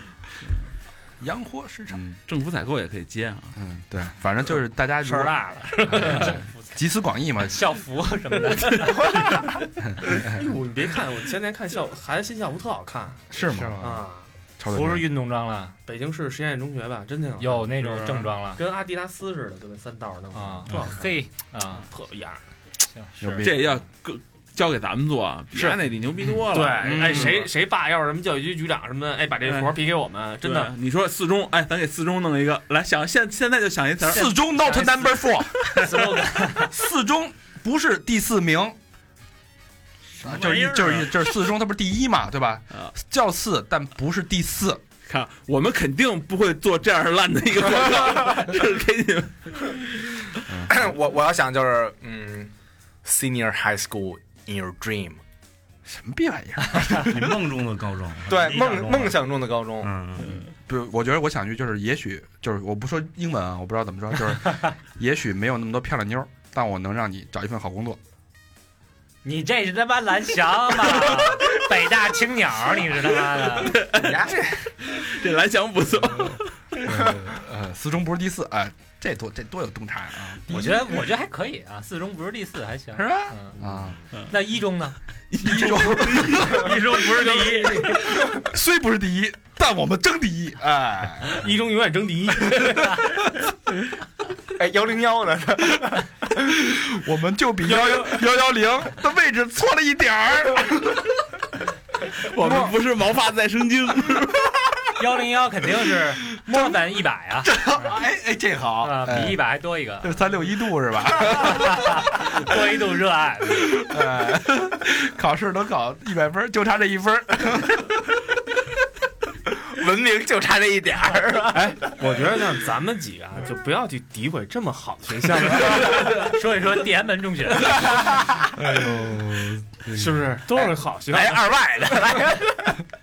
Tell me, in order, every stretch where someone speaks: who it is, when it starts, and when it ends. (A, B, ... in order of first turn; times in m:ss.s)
0:01.2-0:02.2 A
0:02.3-0:03.6 B
0:03.6-0:05.4 A
0:05.1-0:06.4 C
0:05.9-0:07.6 A
0:05.9-0:06.2 D
0:07.4-0:09.3 C
0:09.8-0:10.4 A
0:10.1-0:13.2 D
0:13.3-0:13.9 A
0:13.4-0:14.0 C
0:13.8-0:14.3 D
0:14.6-0:15.1 A
0:14.7-0:15.8 C
0:15.9-0:21.1 D
0:17.4-0:18.6 C
0:20.3-0:21.9 C
0:21.9-0:22.4 D
0:23.0-0:23.5 C
0:23.2-0:23.7 A
0:23.4-0:27.4 B
0:26.5-0:30.7 D
0:26.8-0:27.4 A
0:29.4-0:29.8 B
0:30.4-0:34.4 B
0:34.0-0:35.9 A
0:34.1-0:36.7 C
0:36.5-0:38.8 A
0:40.2-0:44.8 A
0:40.2-0:41.1 E
0:45.1-0:50.6 B
0:50.7-0:52.5 F
0:53.0-0:55.2 F
0:55.9-0:57.4 A
0:57.0-0:59.2 E
0:58.3-0:59.9 F
0:59.8-1:00.4 E
1:00.2-1:00.5 B
1:00.4-1:08.0 A
1:09.2-1:13.8 C
1:13.6-1:16.6 B
1:14.0-1:14.7 F
1:16.2-1:21.1 A
1:20.5-1:23.6 C
1:23.0-1:24.0 A
1:24.3-1:25.0 C
1:25.3-1:26.7 B
1:25.4-1:31.5 A
1:26.5-1:28.0 C
1:27.4-1:28.0 D
1:31.3-1:33.0 D
1:34.6-1:36.1 F
1:36.4-1:41.2 A
1:42.2-1:44.6 B
1:42.3-1:42.8 A
1:45.0-1:47.5 C
1:47.4-1:49.4 A
1:48.8-1:50.2 C
1:50.0-1:52.3 A
1:51.3-1:53.8 C
1:53.6-1:58.2 A
1:59.7-2:01.8 F
2:01.5-2:06.3 D
2:05.9-2:08.3 C
2:08.6-2:10.3 A
2:09.9-2:11.6 D
2:10.6-2:12.8 F